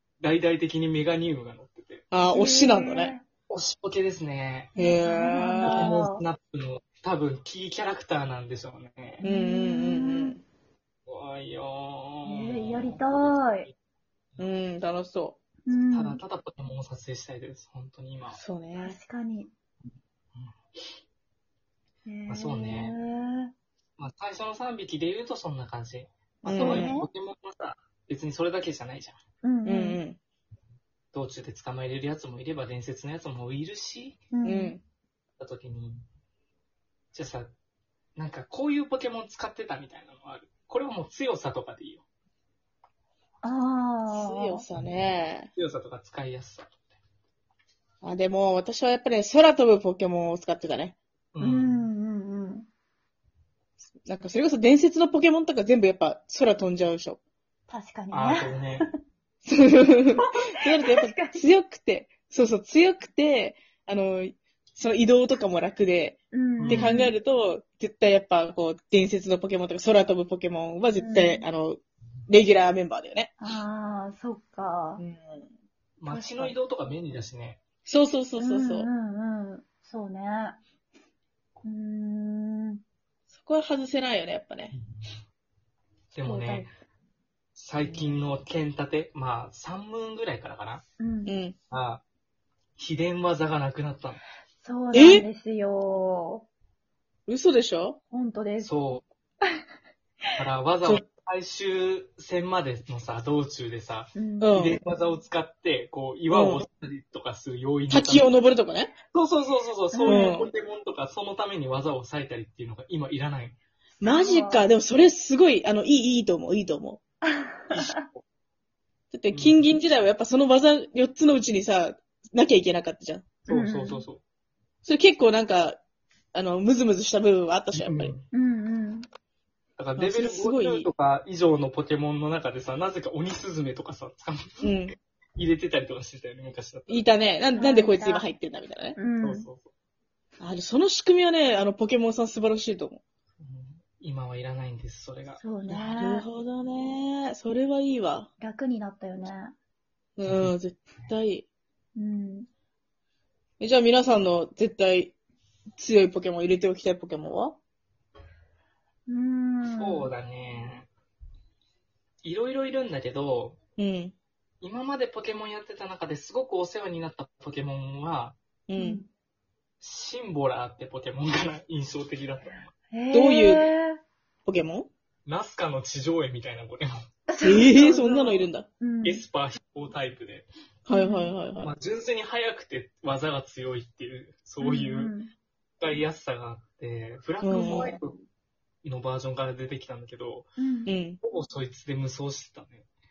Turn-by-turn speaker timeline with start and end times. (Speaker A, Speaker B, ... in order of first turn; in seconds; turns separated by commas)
Speaker A: 0.2-2.0, Speaker B: 2.1-3.1, Speaker C: 2.3-3.2, Speaker A: 3.5-4.7, Speaker B: 4.8-5.9, Speaker C: 4.8-6.2, Speaker A: 5.6-9.2, Speaker C: 9.2-10.3, Speaker B: 9.2-10.4, Speaker A: 11.1-13.8, Speaker C: 12.2-13.7, Speaker B: 14.4-15.4, Speaker C: 15.7-16.2, Speaker A: 15.7-18.4, Speaker B: 18.3-19.0, Speaker C: 18.8-19.5, Speaker A: 20.3-20.9, Speaker C: 22.1-23.5, Speaker A: 22.3-22.9, Speaker A: 24.0-29.2, Speaker C: 26.4-27.1, Speaker B: 26.4-27.0, Speaker C: 29.4-30.0, Speaker B: 29.6-30.2, Speaker A: 31.1-34.2, Speaker C: 34.3-34.8, Speaker B: 34.4-34.8, Speaker A: 35.4-36.0, Speaker A: 37.1-37.5, Speaker A: 38.1-42.0, Speaker C: 43.4-44.6, Speaker B: 44.1-45.5, Speaker A: 44.7-46.7, Speaker B: 48.0-51.0, Speaker A: 51.3-51.9, Speaker C: 51.4-52.6, Speaker B: 54.0-57.2, Speaker C: 57.7-58.9, Speaker A: 58.1-58.9, Speaker B: 59.4-73.3, Speaker C: 60.2-61.4, Speaker C: 66.3-67.1, Speaker A: 66.6-66.9, Speaker C: 71.0-71.4, Speaker C: 73.4-75.0, Speaker B: 75.0-75.5, Speaker A: 76.0-77.6, Speaker C: 76.1-76.5, Speaker B: 77.8-78.9, Speaker C: 78.4-80.6, Speaker C: 81.6-82.8, Speaker B: 83.3-84.7, Speaker A: 84.7-85.2, Speaker A: 86.1-86.7, Speaker C: 86.2-86.7, Speaker A: 87.5-90.8, Speaker B: 87.8-88.2, Speaker C: 91.0-91.3, Speaker B: 91.2-91.5, Speaker A: 91.7-92.0, Speaker A: 92.8-94.2, Speaker C: 94.6-96.4, Speaker B: 94.9-95.2, Speaker B: 97.3-98.0, Speaker C: 98.1-98.7, Speaker A: 98.6-99.0, Speaker A: 100.3-108.3, Speaker C: 104.1-104.7, Speaker B: 104.4-104.8, Speaker B: 106.3-106.6, Speaker B: 107.9-108.9, Speaker A: 109.1-113.6, Speaker C: 109.9-110.3, Speaker B: 110.0-110.5, Speaker C: 114.0-114.7, Speaker B: 114.0-117.0, Speaker C: 117.2-118.0, Speaker A: 117.7-118.2, Speaker B: 119.1-123.3, Speaker A: 119.3-119.6, Speaker A: 123.5-124.2, Speaker C: 123.5-124.0, Speaker B: 124.8-125.8, Speaker B: 126.3-128.1, Speaker A: 127.7-128.2, Speaker C: 128.3-129.1, Speaker A: 129.8-137.1, Speaker B: 130.0-130.9, Speaker B: 134.6-134.9, Speaker B: 136.9-139.0, Speaker C: 137.5-138.2, Speaker C: 139.0-139.5, Speaker A: 139.2-139.7, Speaker B: 140.4-143.0, Speaker A: 143.4-145.4, Speaker C: 145.4-146.2, Speaker B: 145.7-148.3, Speaker C: 148.4-149.5, Speaker B: 150.2-151.4, Speaker A: 150.2-151.1, Speaker C: 151.9-152.5, Speaker B: 153.6-155.1, Speaker B: 155.8-157.6, Speaker C: 159.1-160.1, Speaker A: 159.7-160.9, Speaker A: 162.2-163.6, Speaker B: 163.8-164.1, Speaker A: 164.6-168.4, Speaker B: 168.7-169.0, Speaker C: 168.7-169.1, Speaker A: 169.8-172.7, Speaker C: 172.9-174.0, Speaker B: 173.1-173.7, Speaker B: 174.4-174.9, Speaker A: 175.2-177.0, Speaker C: 177.3-179.2, Speaker B: 177.4-178.7, Speaker A: 179.0-180.5, Speaker B: 180.8-181.7, Speaker C: 180.9-181.3, Speaker A: 181.6-185.1, Speaker C: 184.6-185.3, Speaker A: 185.8-188.2, Speaker B: 187.4-187.9, Speaker A: 188.8-190.5, Speaker C: 190.6-191.0, Speaker B: 190.8-191.2, Speaker A: 191.2-192.9